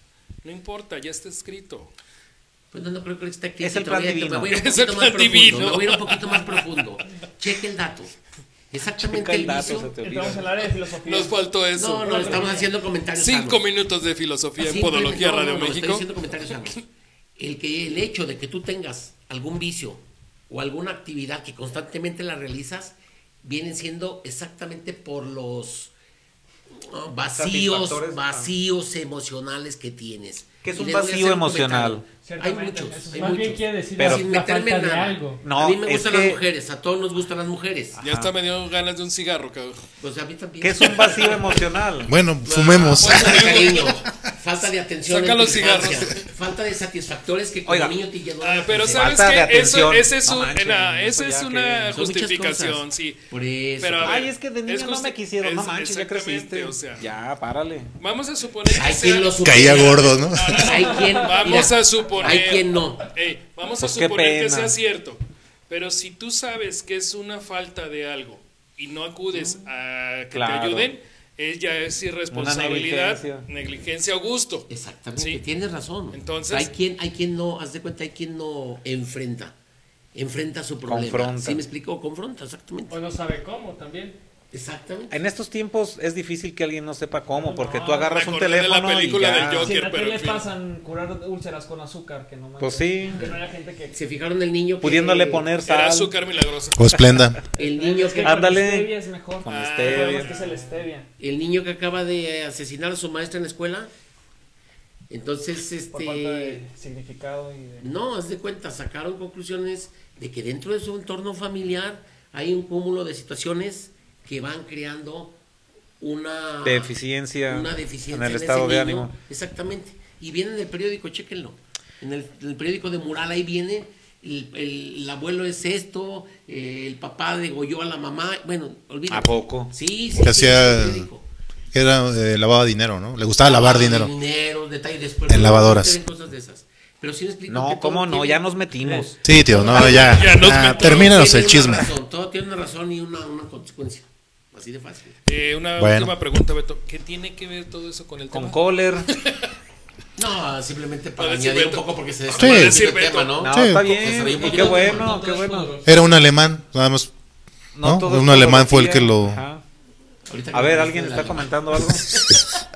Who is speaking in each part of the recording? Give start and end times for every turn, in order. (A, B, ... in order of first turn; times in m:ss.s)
0:00.4-0:01.9 A
0:02.7-0:08.1 B
0:03.6-0:04.5 C
0:04.5-0:06.6 A
0:08.7-0:09.9 B
0:09.0-0:10.4 C
0:10.0-0:11.3 D
0:11.0-0:12.6 A
0:11.8-0:13.6 B
0:12.0-0:12.7 D
0:13.1-0:16.1 A
0:14.6-0:16.8 B
0:17.4-0:25.9 B
0:26.7-0:38.0 B
0:27.3-0:28.5 C
0:30.6-0:32.0 C
0:32.2-0:33.6 D
0:33.1-0:35.4 E
0:34.0-0:34.3 C
0:35.4-0:36.4 C
0:38.0-0:38.3 C
0:38.0-0:39.8 A
0:40.0-0:41.6 B
0:40.6-0:42.1 C
0:42.0-0:43.6 F
0:42.4-0:49.1 B
0:43.0-0:44.0 A
0:45.0-0:46.3 A
0:47.6-0:48.0 C
0:48.4-0:53.2 A
0:48.9-0:52.0 C
0:51.9-0:54.3 B
0:53.8-0:57.1 A
0:54.0-0:57.9 C
0:58.0-1:15.4 A
0:58.6-1:03.1 B
0:59.4-1:00.7 F
1:03.8-1:04.7 C
1:09.3-1:09.6 C
1:10.3-1:10.9 C
1:12.3-1:13.5 C
1:14.7-1:19.5 B
1:16.1-1:16.7 A
1:20.1-1:23.0 B
1:20.9-1:21.6 C
1:22.9-1:24.2 E
1:24.5-1:25.2 B
1:25.1-1:29.7 C
1:27.3-1:28.1 D
1:28.0-1:30.5 A
1:29.6-1:34.0 D
1:32.6-1:33.3 C
1:33.9-1:35.5 B
1:34.8-1:36.1 C
1:35.6-1:37.1 A
1:36.8-1:37.4 F
1:37.5-1:41.1 D
1:37.6-1:38.5 B
1:38.2-1:38.9 C
1:39.4-1:40.3 C
1:39.4-1:40.6 A
1:41.2-1:43.9 B
1:45.1-1:46.6 B
1:45.9-1:47.9 D
1:47.8-1:55.4 B
1:56.0-1:56.9 B
1:56.6-1:59.1 C
1:57.5-2:11.2 B
2:09.1-2:09.7 C
2:10.1-2:11.1 F
2:11.7-2:14.1 F
2:13.4-2:25.2 B
2:15.3-2:16.0 F
2:17.5-2:19.2 C
2:19.2-2:21.9 F
2:19.6-2:21.4 A
2:25.2-2:29.5 A
2:25.8-2:26.1 F
2:28.3-2:29.1 C
2:30.2-2:35.1 B
2:31.2-2:33.4 A
2:32.3-2:32.8 F
2:33.4-2:35.7 C
2:33.5-2:33.9 F
2:34.2-2:36.0 E
2:35.8-2:37.1 F
2:37.7-2:39.6 C
2:37.8-2:39.4 F
2:40.3-2:42.3 B
2:40.5-2:42.2 C